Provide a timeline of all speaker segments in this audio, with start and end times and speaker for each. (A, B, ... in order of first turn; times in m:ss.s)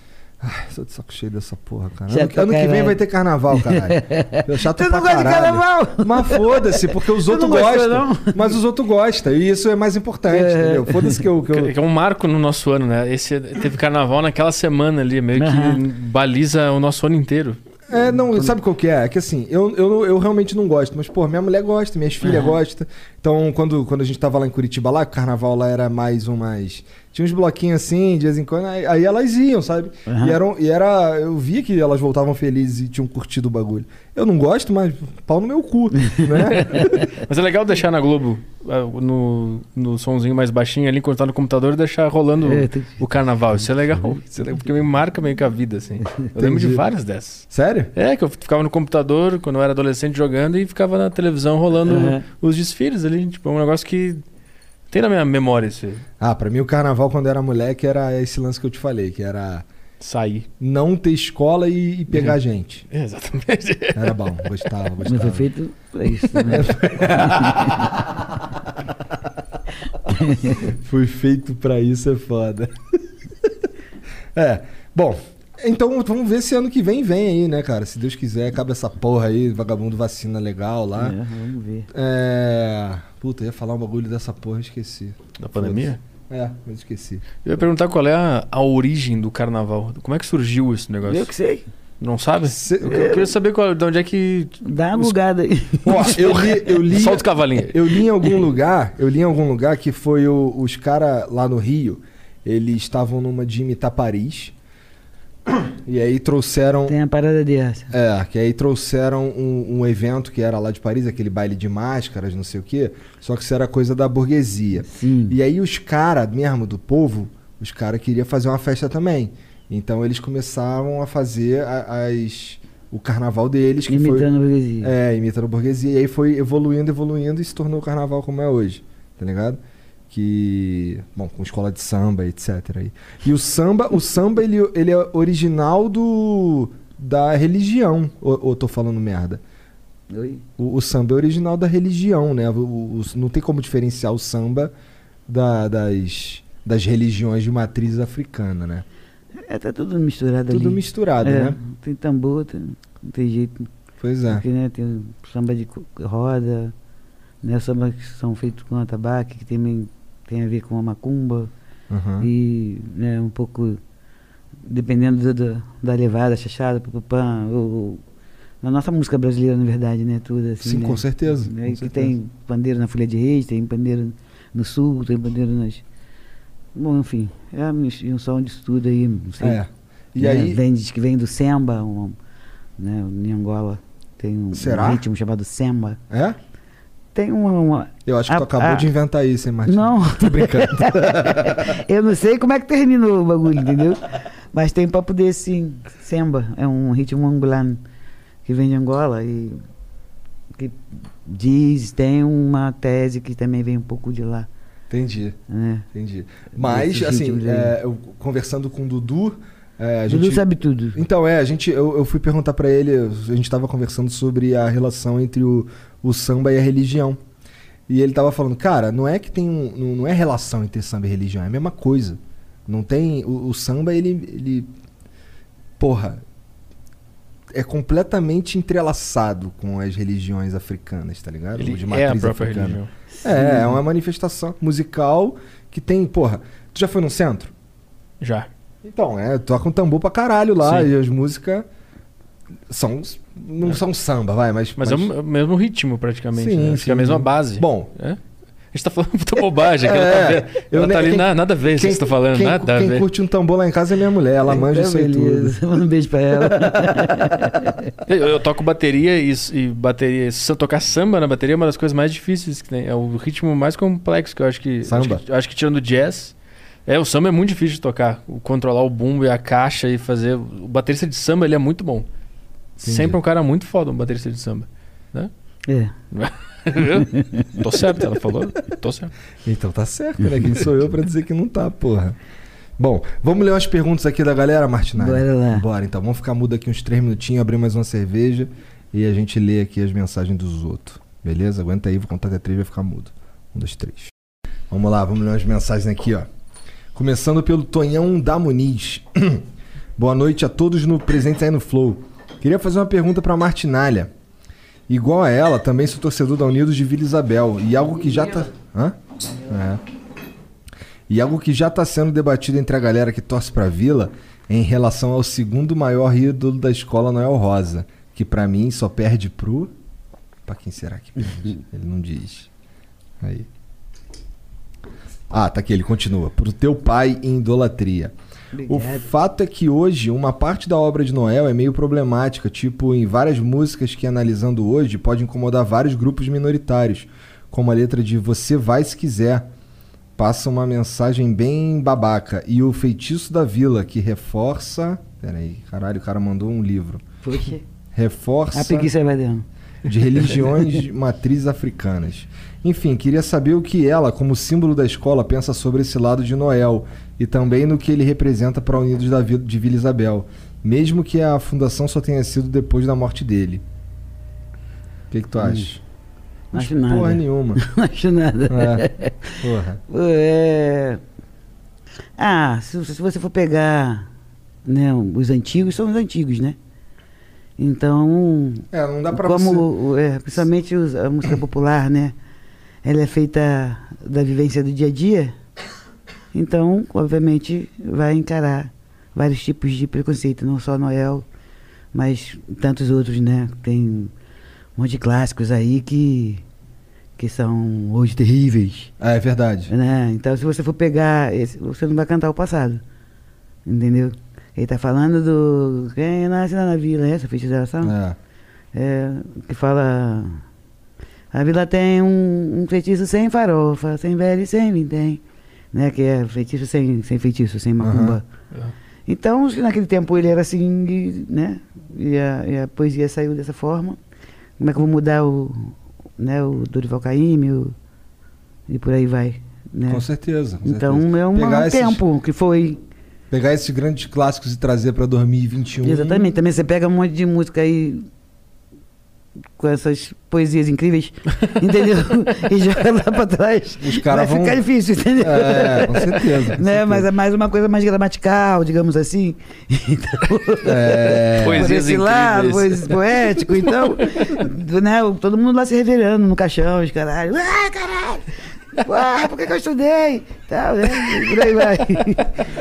0:00.4-0:11.7 A
0:02.1-0:03.0 B
0:03.5-0:08.6 B
0:10.3-0:11.2 B
0:11.5-0:17.6 C
0:15.4-0:15.8 B
0:17.9-0:37.0 A
0:17.9-0:18.5 B
0:22.2-0:22.6 B
0:30.1-0:30.4 B
0:36.1-0:37.0 B
0:36.6-0:54.2 C
0:42.4-0:43.0 B
0:46.4-0:46.8 A
0:47.5-0:47.9 A
0:51.9-0:52.2 B
0:54.9-0:56.0 C
0:56.2-0:59.6 A
1:00.0-1:00.5 C
1:00.6-1:02.8 A
1:02.9-1:04.6 C
1:03.9-1:05.5 A
1:05.0-1:07.7 B
1:06.4-1:08.2 A
1:10.0-1:10.7 B
1:10.6-1:12.8 A
1:14.3-1:21.2 A
1:21.0-1:21.9 B
1:21.9-1:27.2 A
1:25.4-1:26.0 C
1:27.4-1:31.3 C
1:31.0-1:31.7 B
1:32.0-1:35.1 C
1:32.5-1:33.1 A
1:32.8-1:33.3 B
1:34.6-1:36.4 B
1:35.8-1:44.5 A
1:36.1-1:37.9 C
1:45.5-1:46.9 A
1:46.9-1:47.9 B
1:47.9-2:04.3 A
1:54.8-1:55.4 B
2:03.9-2:04.9 B
2:04.8-2:19.4 A
2:20.1-2:20.4 B
2:20.6-2:24.7 A
2:25.3-2:28.8 A
2:29.4-2:33.7 B
2:30.5-2:31.6 A
2:34.0-2:34.4 A
2:34.3-2:36.7 B
2:37.4-2:41.5 B
2:41.9-2:42.3 A
2:42.2-2:43.8 B
2:44.6-2:48.0 B
2:48.6-2:55.8 B
2:50.6-2:52.1 A
2:56.7-2:59.6 B
2:59.4-3:00.6 A
3:00.2-3:02.2 B
3:02.8-3:06.0 B
3:04.5-3:05.0 A
3:06.1-3:06.4 A
3:07.1-3:08.9 B
3:08.0-3:11.8 A
3:09.6-3:17.8 B
3:18.4-3:19.6 B
3:20.5-3:24.5 B
3:24.9-3:25.4 A
3:25.5-3:25.8 B
3:25.9-3:37.2 A
3:26.5-3:27.7 B
3:30.1-3:31.0 B
3:37.9-3:44.7 A
3:45.8-3:46.2 A
3:47.5-3:57.5 A
3:51.6-3:52.9 C
3:53.1-3:53.8 B
3:58.2-3:58.5 C
3:58.8-4:01.6 A
4:00.6-4:00.9 C
4:02.7-4:05.1 A
4:04.8-4:08.2 C
4:06.3-4:07.9 A
4:08.7-4:13.0 C
4:09.8-4:15.6 A
4:14.4-4:17.9 B
4:18.0-4:26.3 C
4:24.8-4:25.2 A
4:26.8-4:32.1 C
4:32.8-4:35.3 C
4:32.8-4:33.2 A
4:35.7-4:35.9 B
4:36.1-4:39.1 C
4:36.8-4:37.6 B
4:39.4-4:42.2 A
4:42.8-4:54.1 A
4:45.0-4:45.6 B
4:54.7-4:56.3 A
4:56.9-4:59.4 A
5:00.0-5:04.1 A
5:04.9-5:09.8 A
5:11.1-5:19.7 A
5:20.4-5:22.5 A
5:23.2-5:23.5 A
5:25.3-5:28.1 A
5:28.5-5:29.1 B
5:28.7-5:39.5 A
5:40.2-5:47.0 A
5:47.2-5:47.6 B
5:47.9-5:48.9 A
5:48.5-5:49.4 B
5:49.8-6:03.6 A
6:05.1-6:05.8 A
6:05.4-6:05.7 B
6:06.5-6:11.0 B
6:06.5-6:07.6 A
6:08.5-6:08.8 A
6:09.4-6:09.8 A
6:12.2-6:14.1 B
6:14.6-6:16.6 B
6:17.6-6:22.1 B
6:18.7-6:19.7 A
6:22.8-6:25.3 B
6:26.3-6:31.2 B
6:31.9-6:34.1 B
6:34.8-6:36.4 B
6:37.2-6:38.9 B
6:39.0-6:39.7 A
6:39.7-6:42.8 B
6:43.6-6:47.9 B
6:47.8-6:48.2 A
6:48.7-6:50.4 B
6:51.3-6:55.2 B
6:55.7-6:58.2 B
6:57.8-6:58.2 A
6:59.1-7:04.0 B
7:04.6-7:07.7 B
7:08.7-7:10.0 B
7:09.9-7:12.0 A
7:10.6-7:12.8 B
7:13.3-7:16.4 A
7:15.8-7:18.1 B
7:19.6-7:42.4 B
7:23.8-7:24.6 A
7:25.2-7:27.1 A
7:30.6-7:31.7 A
7:31.4-7:33.0 C